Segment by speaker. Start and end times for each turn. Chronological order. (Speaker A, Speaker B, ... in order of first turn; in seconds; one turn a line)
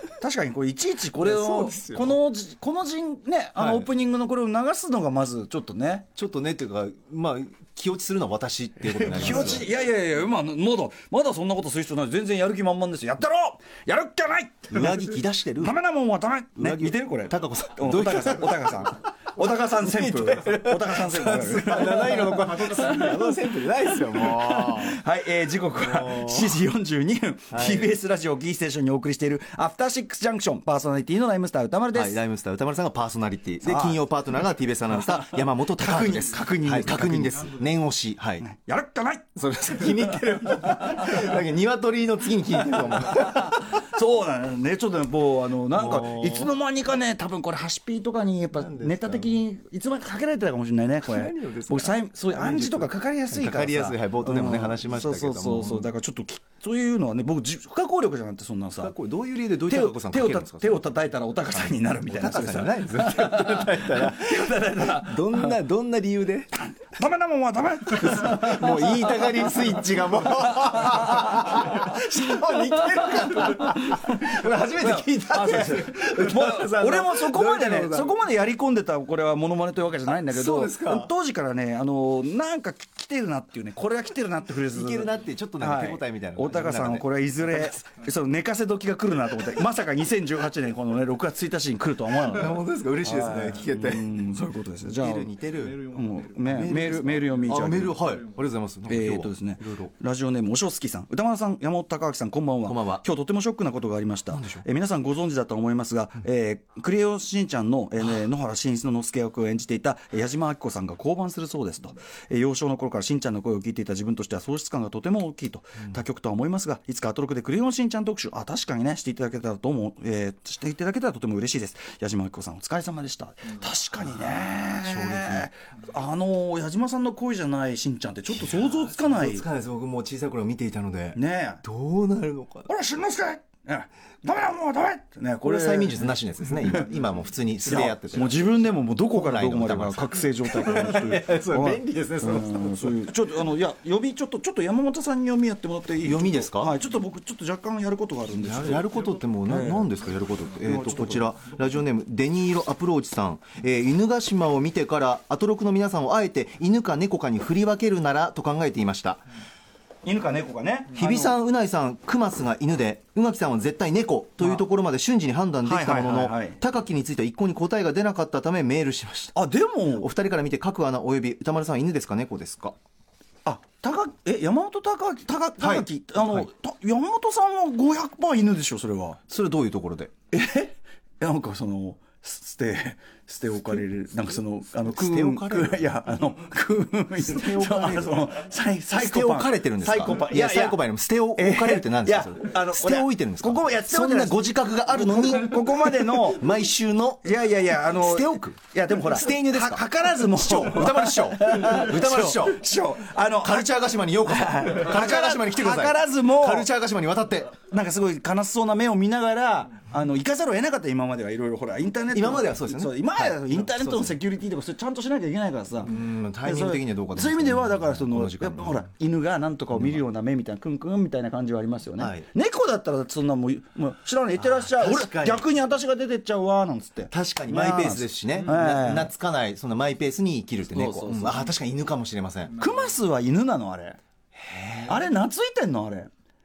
Speaker A: 0.2-6.1
Speaker B: 1.2-2.2
Speaker B: 3.6-3.9
Speaker B: 6.2-9.7
Speaker A: 8.9-23.1
Speaker B: 14.7-15.8
Speaker B: 16.6-18.9
Speaker B: 19.7-25.0
Speaker A: 24.2-32.2
Speaker B: 25.7-26.6
Speaker B: 27.5-27.9
Speaker B: 31.9-38.5
Speaker A: 33.6-34.0
Speaker A: 35.8-37.6
Speaker A: 38.4-39.3
Speaker B: 39.4-43.8
Speaker A: 43.3-58.9
Speaker B: 45.7-46.5
Speaker B: 48.5-49.4
Speaker B: 51.0-55.9
Speaker B: 58.8-60.9
Speaker A: 59.7-65.5
Speaker B: 61.5-66.8
Speaker A: 66.8-69.3
Speaker B: 67.9-78.2
Speaker A: 71.4-71.9
Speaker A: 74.8-98.0
Speaker B: 80.1-81.1
Speaker B: 84.7-87.7
Speaker B: 92.2-94.1
Speaker B: 95.0-95.9
Speaker B: 96.4-99.9
Speaker A: 98.9-129.5
Speaker B: 102.7-103.0
Speaker B: 104.3-104.6
Speaker B: 124.8-125.5
Speaker B: 128.3-132.7
Speaker A: 131.2-131.6
Speaker A: 132.7-136.1
Speaker B: 135.4-138.5
Speaker A: 137.7-148.9
Speaker B: 139.1-143.1
Speaker B: 146.0-146.8
Speaker B: 148.4-159.2
Speaker A: 149.5-149.9
Speaker A: 150.6-151.3
Speaker A: 160.0-161.3
Speaker B: 160.9-169.4
Speaker A: 165.7-166.6
Speaker A: 169.3-170.1
Speaker B: 169.9-172.8
Speaker A: 173.4-179.2
Speaker B: 175.6-176.5
Speaker B: 179.3-180.1
Speaker A: 180.3-190.8
Speaker B: 184.8-185.9
Speaker B: 187.2-188.3
Speaker B: 188.9-197.3
Speaker A: 191.4-196.5
Speaker A: 197.2-203.8
Speaker B: 197.9-202.6
Speaker B: 203.4-207.5
Speaker A: 204.3-206.7
Speaker A: 207.7-229.1
Speaker B: 212.1-214.2
Speaker B: 215.8-218.9
Speaker B: 219.7-220.0
Speaker B: 222.0-222.3
Speaker B: 224.4-225.5
Speaker B: 227.1-232.6
Speaker A: 230.7-231.5
Speaker A: 232.5-234.0
Speaker B: 234.3-235.1
Speaker A: 234.9-236.1